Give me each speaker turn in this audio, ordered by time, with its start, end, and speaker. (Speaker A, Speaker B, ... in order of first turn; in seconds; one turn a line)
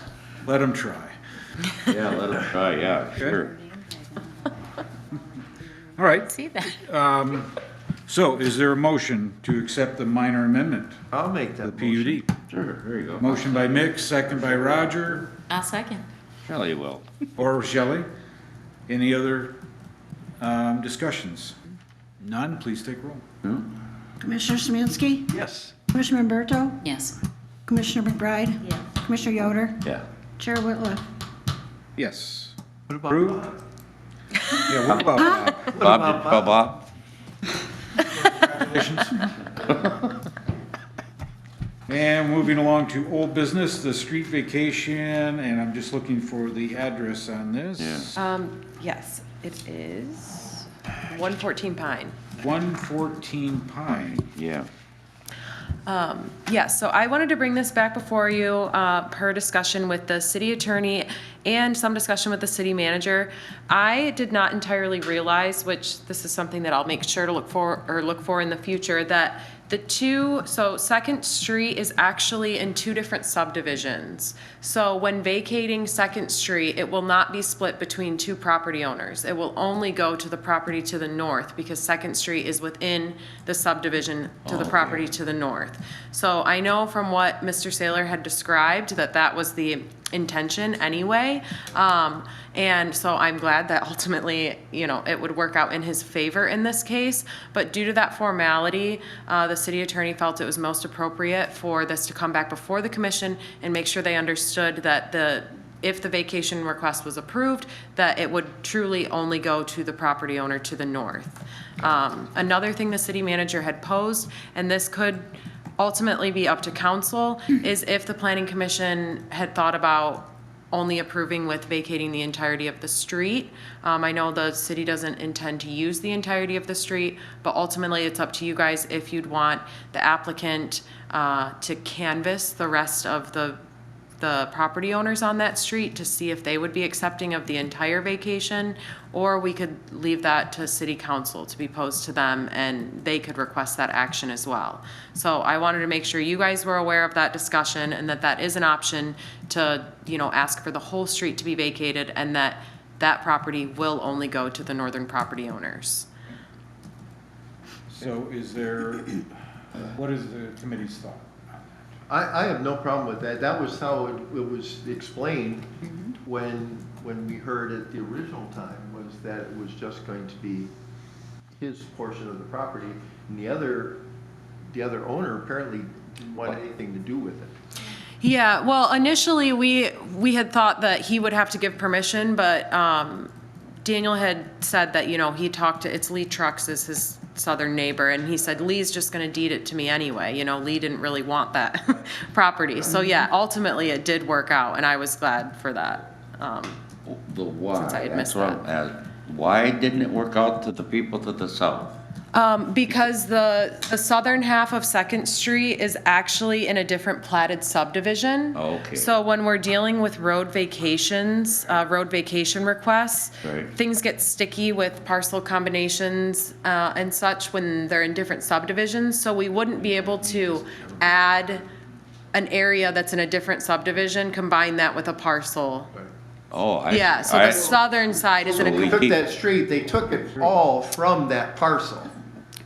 Speaker A: 0.4-1.1
Speaker B: 1.9-3.5
Speaker C: 3.8-4.2
Speaker A: 6.0-7.5
Speaker C: 6.3-6.7
Speaker A: 8.1-11.0
Speaker D: 11.1-12.2
Speaker A: 11.6-12.3
Speaker B: 12.5-13.6
Speaker A: 13.2-15.3
Speaker C: 15.5-16.0
Speaker B: 16.4-17.0
Speaker A: 17.4-18.1
Speaker A: 18.9-19.6
Speaker A: 20.4-21.6
Speaker A: 22.2-23.2
Speaker E: 24.2-25.4
Speaker D: 25.3-25.7
Speaker E: 25.9-26.8
Speaker C: 26.8-27.1
Speaker E: 27.7-29.8
Speaker C: 28.7-28.9
Speaker E: 30.4-31.0
Speaker A: 31.9-32.5
Speaker D: 32.9-33.5
Speaker A: 33.0-33.5
Speaker A: 34.5-35.7
Speaker B: 34.9-35.2
Speaker D: 35.6-36.6
Speaker B: 35.7-36.8
Speaker A: 38.1-39.3
Speaker A: 41.9-48.2
Speaker B: 47.8-48.1
Speaker F: 48.1-52.1
Speaker A: 52.4-54.3
Speaker B: 54.3-54.7
Speaker F: 55.9-115.3
Speaker B: 84.4-85.0
Speaker F: 115.8-133.6
Speaker F: 134.2-156.1
Speaker A: 157.9-159.2
Speaker A: 159.7-161.8
Speaker D: 162.1-170.7
Speaker D: 171.6-174.0
Speaker D: 174.7-177.5
Speaker F: 178.2-183.3
Speaker F: 183.8-196.8
Speaker B: 197.1-202.0
Speaker F: 197.7-198.6
Speaker F: 202.3-221.7
Speaker B: 208.5-209.1
Speaker B: 213.4-213.7
Speaker F: 222.3-225.9
Speaker B: 226.5-227.8
Speaker F: 226.9-229.1
Speaker B: 228.4-229.2
Speaker D: 228.5-232.1